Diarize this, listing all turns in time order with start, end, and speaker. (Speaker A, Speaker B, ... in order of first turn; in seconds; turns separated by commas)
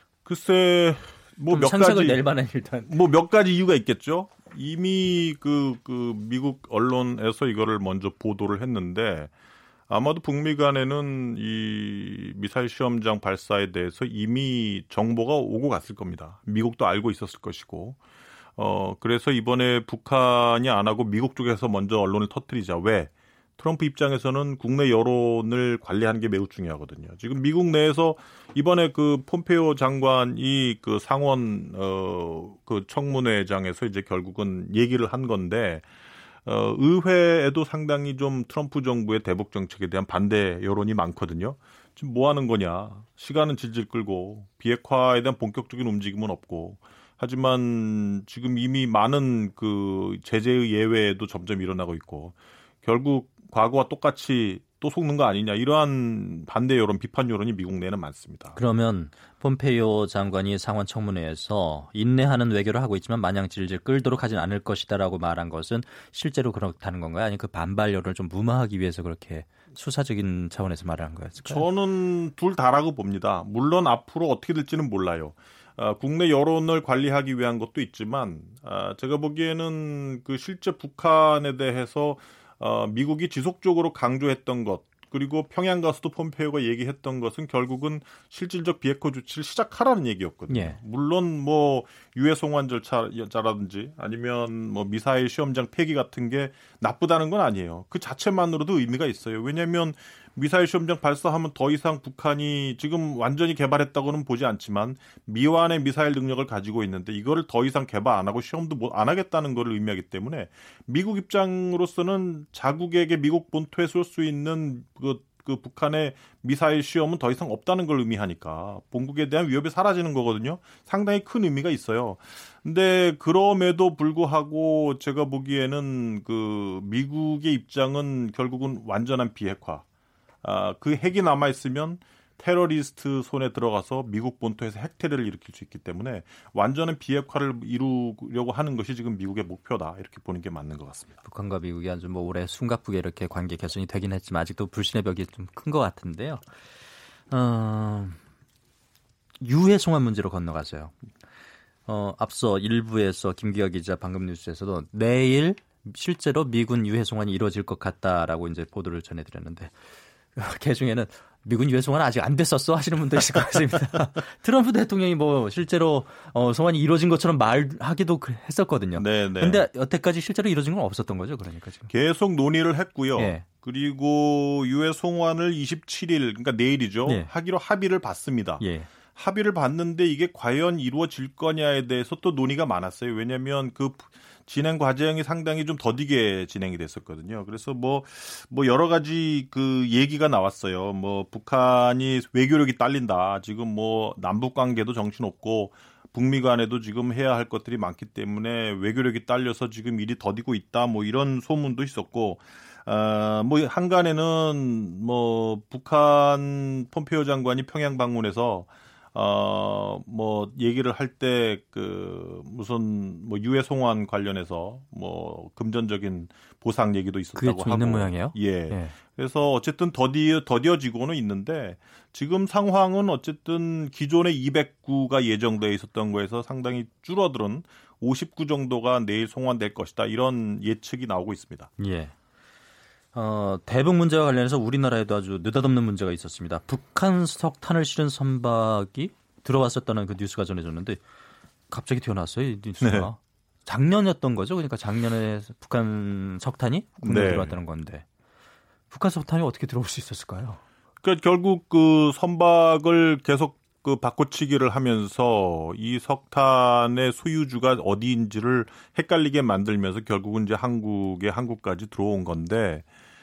Speaker A: 0.3-2.2, Speaker B: 1.5-2.9, Speaker A: 2.9-9.3, Speaker A: 9.9-18.0, Speaker A: 18.6-35.9, Speaker A: 36.5-58.6, Speaker B: 58.5-71.7, Speaker A: 71.4-129.8, Speaker B: 90.5-90.8, Speaker A: 130.4-141.2, Speaker B: 141.2-146.5, Speaker B: 147.3-148.2, Speaker B: 149.4-151.0, Speaker B: 151.9-159.8, Speaker B: 160.3-171.9, Speaker A: 169.0-169.6, Speaker A: 171.9-231.7, Speaker B: 173.2-173.5, Speaker B: 177.1-177.3, Speaker B: 178.6-178.9, Speaker B: 217.3-219.0, Speaker B: 231.8-232.1, Speaker B: 233.1-241.0, Speaker B: 241.7-248.1, Speaker A: 242.8-243.1, Speaker A: 247.0-247.6, Speaker B: 248.9-250.6, Speaker A: 251.0-262.9